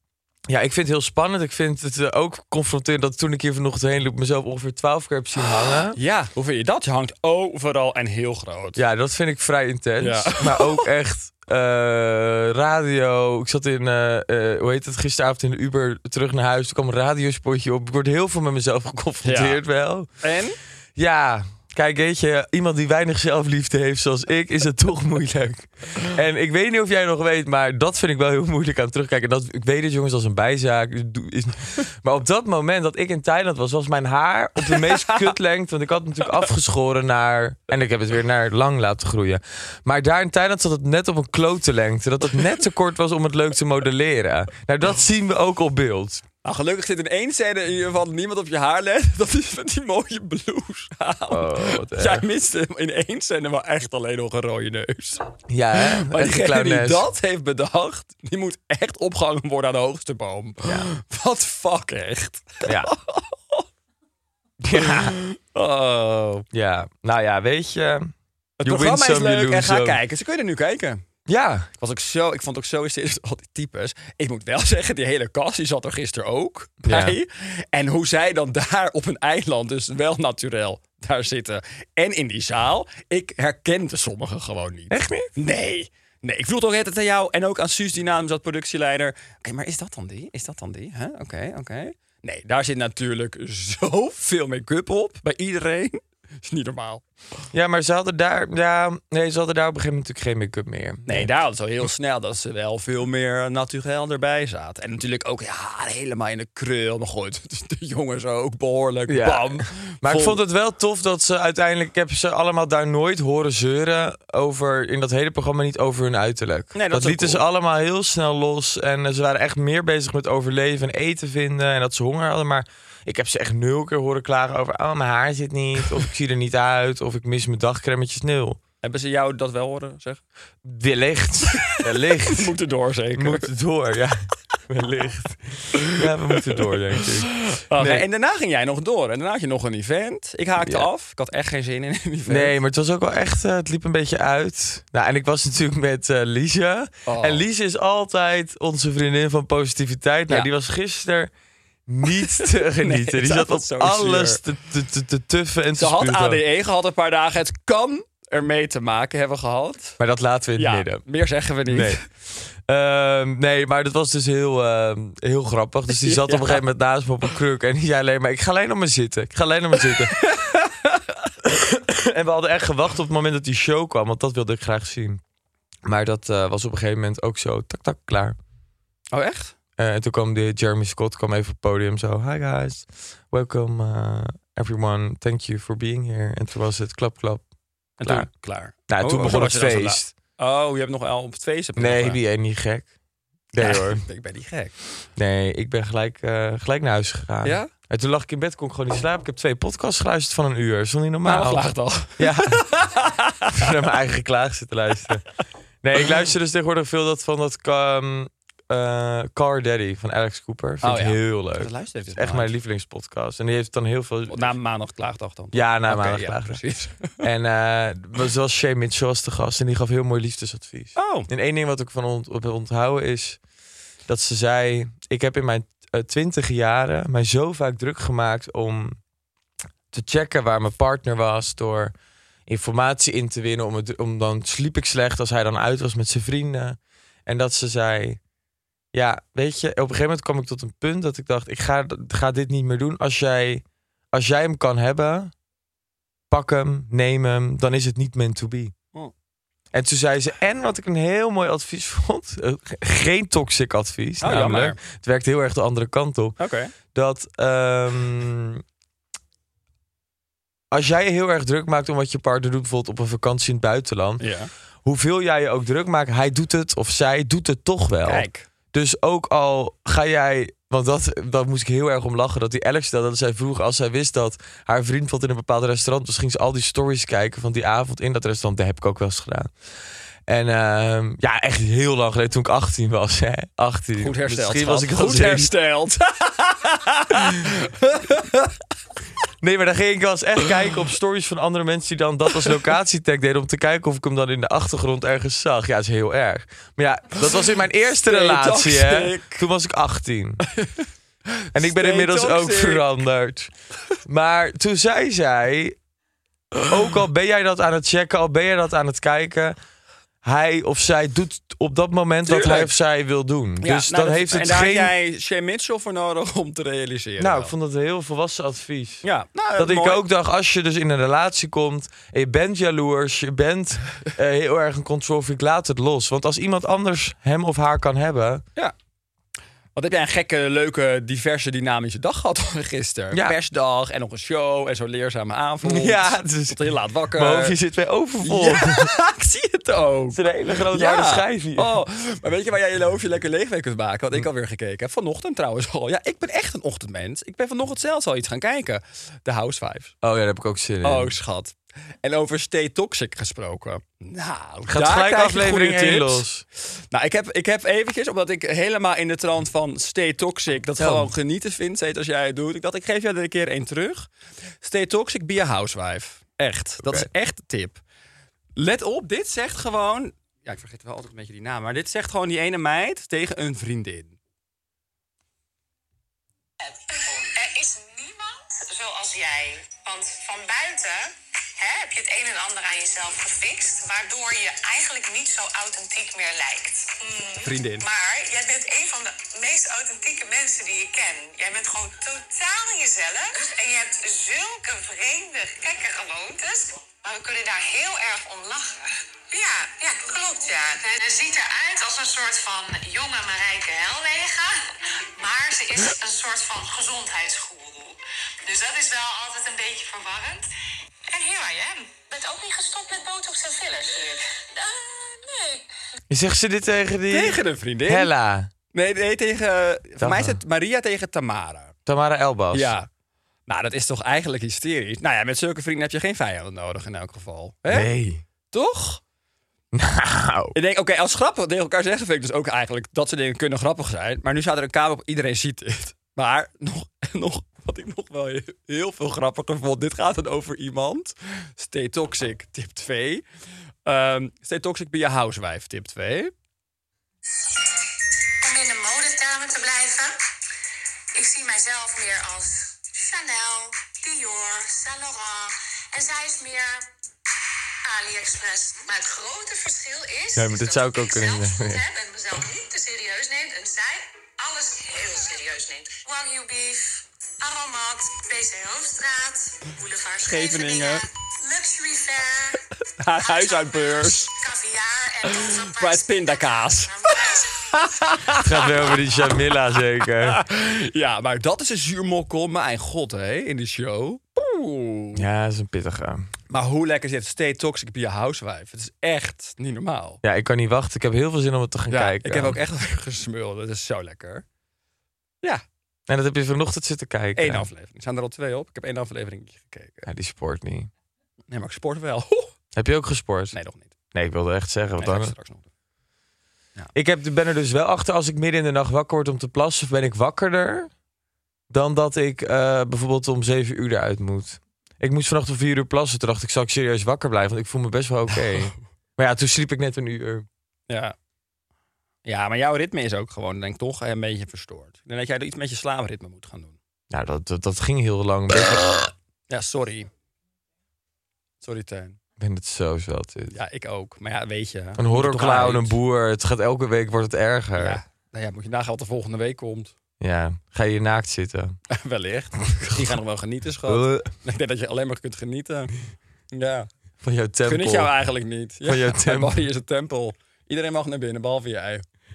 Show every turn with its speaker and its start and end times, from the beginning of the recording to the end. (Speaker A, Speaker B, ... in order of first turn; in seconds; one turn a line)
Speaker A: 0.5-6.0
Speaker B: 5.9-8.8
Speaker A: 8.8-20.1
Speaker B: 10.0-10.9
Speaker B: 19.2-19.6
Speaker B: 20.2-20.6
Speaker A: 20.9-46.2
Speaker B: 34.7-35.3
Speaker B: 46.4-63.6
Speaker A: 51.3-52.2
Speaker A: 55.5-57.0
Speaker A: 60.6-60.9
Speaker A: 62.6-62.9
Speaker A: 64.6-65.2
Speaker B: 64.8-66.5
Speaker A: 66.5-68.1
Speaker B: 68.6-71.0
Speaker A: 68.6-70.0
Speaker A: 71.3-71.7
Speaker B: 71.8-97.0
Speaker A: 76.8-77.2
Speaker A: 84.9-85.3
Speaker A: 97.5-101.3
Speaker B: 101.1-110.4
Speaker A: 109.1-128.6
Speaker B: 116.7-117.4
Speaker B: 128.8-130.2
Speaker A: 130.6-132.5
Speaker B: 131.5-133.5
Speaker A: 133.1-138.0
Speaker B: 135.9-136.6
Speaker B: 137.4-142.5
Speaker A: 140.6-140.9
Speaker A: 142.3-151.3
Speaker B: 147.1-147.4
Speaker A: 151.9-156.4
Speaker B: 152.4-154.4
Speaker B: 155.8-160.0
Speaker A: 160.0-161.0
Speaker B: 160.6-162.0
Speaker A: 161.7-162.0
Speaker A: 162.7-170.2
Speaker B: 165.9-166.6
Speaker B: 170.0-171.1
Speaker A: 171.4-175.2
Speaker A: 175.8-178.4
Speaker B: 179.1-179.5
Speaker A: 179.8-187.4
Speaker B: 188.0-192.2
Speaker A: 188.0-188.3
Speaker A: 188.9-190.1
Speaker A: 191.8-192.9
Speaker A: 193.5-194.0
Speaker B: 193.6-194.7
Speaker A: 195.2-202.6
Speaker B: 197.4-197.7
Speaker B: 201.2-203.8
Speaker A: 203.5-205.2
Speaker A: 205.8-214.5
Speaker B: 210.8-212.5
Speaker B: 214.3-217.2
Speaker A: 215.5-216.6
Speaker A: 217.2-223.4
Speaker B: 220.9-221.3
Speaker A: 224.1-229.0
Speaker A: 229.9-231.9
Speaker A: 232.5-238.2
Speaker A: 238.9-245.3
Speaker A: 246.3-248.7
Speaker A: 249.7-256.4
Speaker B: 254.2-254.8
Speaker B: 256.4-256.7
Speaker A: 256.9-258.6
Speaker A: 260.7-264.2
Speaker B: 264.2-264.5
Speaker A: 264.8-279.5
Speaker B: 268.0-268.5
Speaker A: 280.3-285.5
Speaker B: 284.0-288.5
Speaker A: 289.4-300.5
Speaker B: 298.1-299.4
Speaker B: 301.4-302.9
Speaker A: 301.5-305.8
Speaker A: 306.6-309.6
Speaker A: 310.2-314.9
Speaker B: 312.3-312.7
Speaker B: 313.6-317.5
Speaker A: 317.2-319.0
Speaker B: 319.0-320.0
Speaker A: 319.6-328.4
Speaker B: 329.8-337.6
Speaker A: 335.6-336.6
Speaker A: 337.1-338.9
Speaker B: 338.2-349.9
Speaker A: 340.1-341.8
Speaker A: 350.0-351.1
Speaker B: 350.8-356.2
Speaker A: 354.7-356.4
Speaker B: 356.9-364.1
Speaker A: 360.8-361.1
Speaker B: 364.6-367.8
Speaker A: 366.8-367.1
Speaker B: 368.6-374.1
Speaker C: 376.7-410.4
Speaker B: 387.4-387.9
Speaker C: 411.1-415.6
Speaker A: 416.1-418.5
Speaker B: 417.1-418.1
Speaker B: 418.7-421.7
Speaker A: 420.0-420.4
Speaker A: 421.9-422.7
Speaker B: 422.5-422.9
Speaker B: 423.5-427.9
Speaker A: 427.7-428.2
Speaker B: 428.5-429.0
Speaker A: 429.7-430.5
Speaker B: 430.5-443.2
Speaker B: 443.9-446.3
Speaker C: 448.4-450.1
Speaker C: 451.1-456.9
Speaker C: 457.8-472.6
Speaker A: 460.4-461.8
Speaker B: 470.2-471.0
Speaker B: 473.0-474.3
Speaker C: 473.2-477.9
Speaker B: 475.3-479.5
Speaker A: 478.4-480.4
Speaker B: 480.1-485.2
Speaker A: 485.1-486.3
Speaker B: 486.5-490.2
Speaker A: 490.2-492.6
Speaker B: 491.9-494.4
Speaker A: 496.1-497.7
Speaker B: 497.4-500.1
Speaker A: 500.1-500.9
Speaker B: 501.5-502.5
Speaker A: 502.8-503.6
Speaker B: 503.5-503.9
Speaker A: 504.1-505.3
Speaker B: 505.0-505.7
Speaker A: 506.9-510.9
Speaker A: 511.7-520.5
Speaker B: 520.9-521.1
Speaker B: 522.2-526.8
Speaker A: 527.1-529.1
Speaker B: 529.5-530.1
Speaker B: 531.6-532.2
Speaker A: 532.4-533.5
Speaker B: 533.5-536.0
Speaker A: 535.0-538.0
Speaker B: 537.8-539.9
Speaker A: 540.2-541.8
Speaker B: 541.9-546.0
Speaker A: 542.7-543.1
Speaker A: 543.9-544.3
Speaker B: 546.5-546.9
Speaker A: 547.2-548.1
Speaker B: 547.6-552.0
Speaker A: 548.8-549.6